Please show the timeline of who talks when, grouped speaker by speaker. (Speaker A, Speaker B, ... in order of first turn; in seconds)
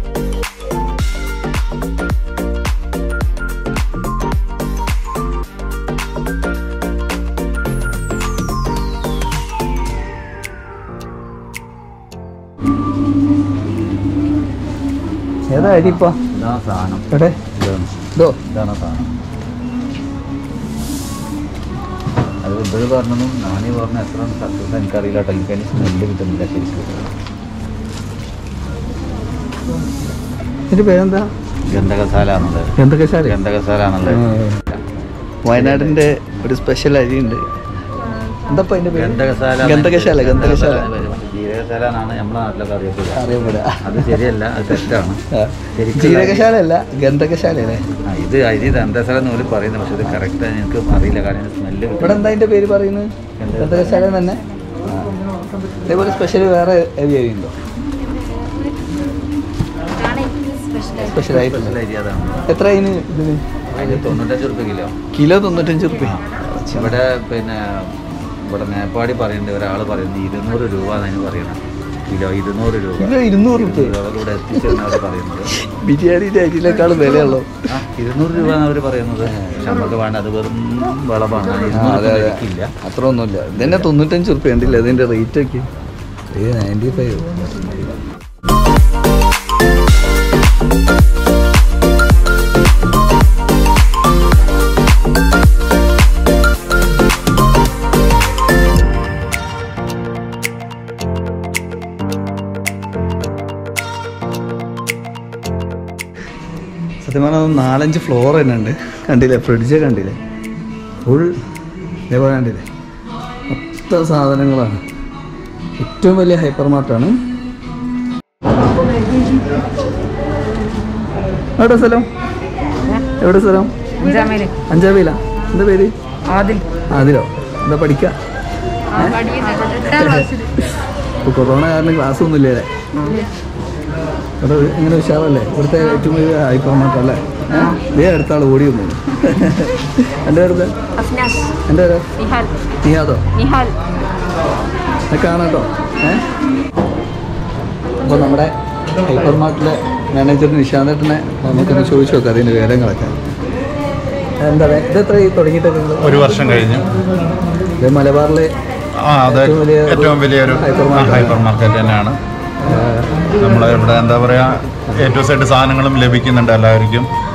Speaker A: 15.5-16.2, 17.1-17.4, 30.7-31.3, 32.8-33.4, 34.1-34.6, 35.5-37.4, 38.5-40.9, 43.1-44.2, 45.3-47.8, 52.0-55.1, 55.9-57.5, 61.0-61.8, 62.5-64.2, 65.1-67.0, 73.0-74.0, 74.5-74.8, 75.5-77.6, 79.2-79.7, 81.7-85.7, 86.3-88.0, 107.0-110.2, 111.1-111.3, 112.1-112.7, 113.5-114.8, 115.8-117.2, 121.6-122.1, 123.2-123.7, 124.7-125.9, 126.9-128.1, 129.9-130.3, 131.3-132.7, 134.4-140.8, 141.7-142.1, 142.8-143.2, 145.1-146.2, 148.0-148.5, 149.1-153.2, 154.4-156.2, 157.8-158.5, 159.3-161.4, 162.7-163.1
Speaker B: 15.6-17.9, 18.5-19.1, 22.4-27.1, 31.7-32.7, 33.3-34.8, 35.5-36.0, 38.9-45.2, 45.8-46.5, 48.1-52.3, 53.4-54.0, 61.1-62.5, 63.7-65.0, 66.7-75.6, 77.7-82.7, 83.6-83.9
Speaker C: 58.3-58.7, 59.9-61.2, 124.0-124.6, 126.3-126.6, 128.9-130.5, 133.0-133.3, 141.0-141.6, 142.2-142.6, 143.3-143.8
Speaker D: 156.0-156.9, 159.0-162.2, 163.4-167.1